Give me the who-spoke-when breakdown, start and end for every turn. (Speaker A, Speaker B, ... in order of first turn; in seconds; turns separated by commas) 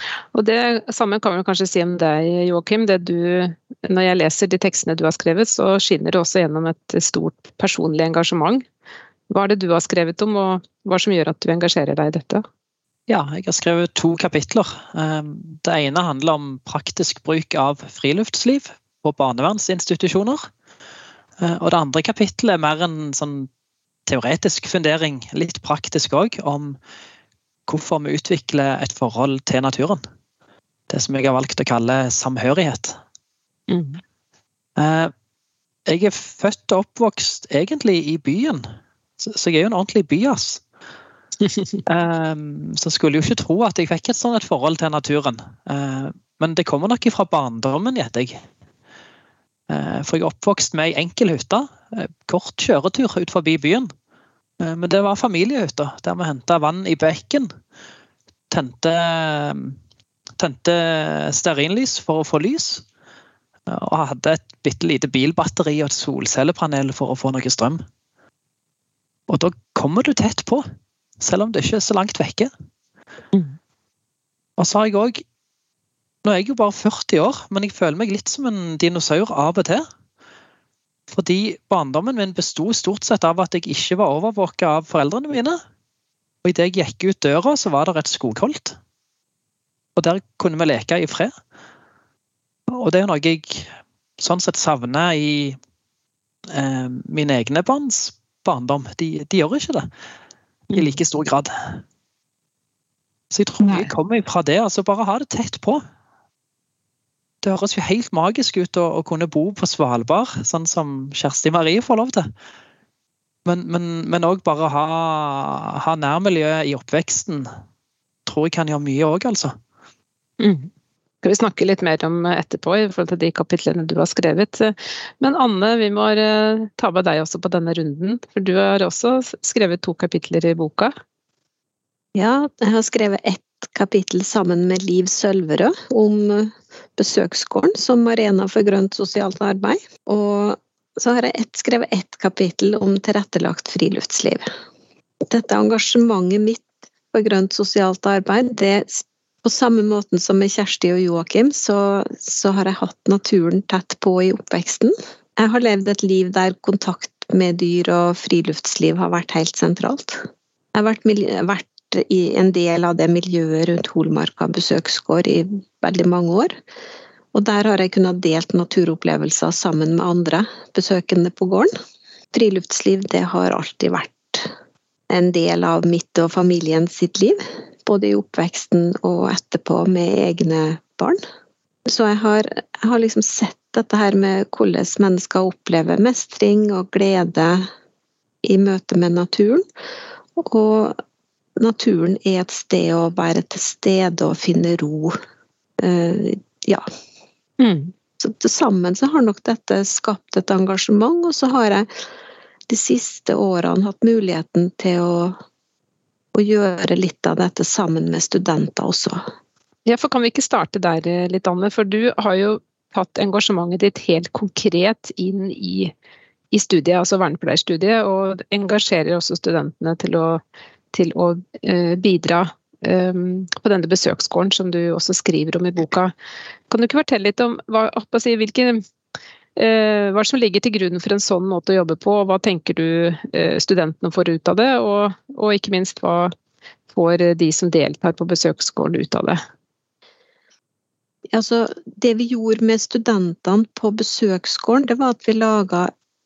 Speaker A: 0.3-8.6, Speaker A: 9.3-12.4, Speaker B: 13.1-20.4, Speaker B: 21.4-23.5, Speaker B: 24.1-26.8, Speaker B: 27.7-30.0, Speaker B: 30.9-33.0, Speaker A: 33.7-34.0, Speaker B: 34.8-35.1, Speaker B: 35.9-38.6, Speaker B: 39.2-40.6, Speaker A: 41.4-41.8, Speaker B: 41.9-48.4, Speaker B: 49.7-53.9, Speaker B: 54.6-57.5, Speaker B: 58.5-59.8, Speaker B: 60.4-62.8, Speaker B: 63.7-67.8, Speaker B: 69.3-70.6, Speaker B: 71.2-72.5, Speaker B: 74.6-75.2, Speaker B: 76.2-79.8, Speaker B: 81.1-85.6, Speaker B: 86.4-88.8, Speaker B: 90.0-91.3, Speaker B: 92.7-93.7, Speaker B: 94.2-95.5, Speaker B: 96.5-99.9, Speaker A: 100.7-101.0, Speaker B: 100.7-101.8, Speaker B: 103.3-105.8, Speaker A: 103.6-103.9, Speaker B: 107.4-112.3, Speaker B: 113.4-117.5, Speaker B: 118.3-119.5, Speaker A: 120.4-120.7, Speaker A: 121.2-130.9, Speaker C: 132.2-144.4, Speaker C: 145.3-166.5, Speaker C: 167.3-171.7, Speaker C: 172.3-174.5, Speaker C: 175.1-181.2, Speaker C: 181.9-187.7, Speaker C: 188.4-189.6, Speaker C: 190.4-191.0, Speaker C: 191.6-195.2, Speaker C: 195.8-196.8, Speaker A: 197.6-197.9, Speaker C: 198.2-201.9, Speaker C: 202.7-205.3, Speaker C: 206.3-209.2, Speaker A: 209.8-215.9, Speaker A: 216.5-226.1, Speaker A: 226.7-228.8, Speaker A: 229.6-236.3, Speaker A: 236.9-239.4, Speaker C: 241.3-245.9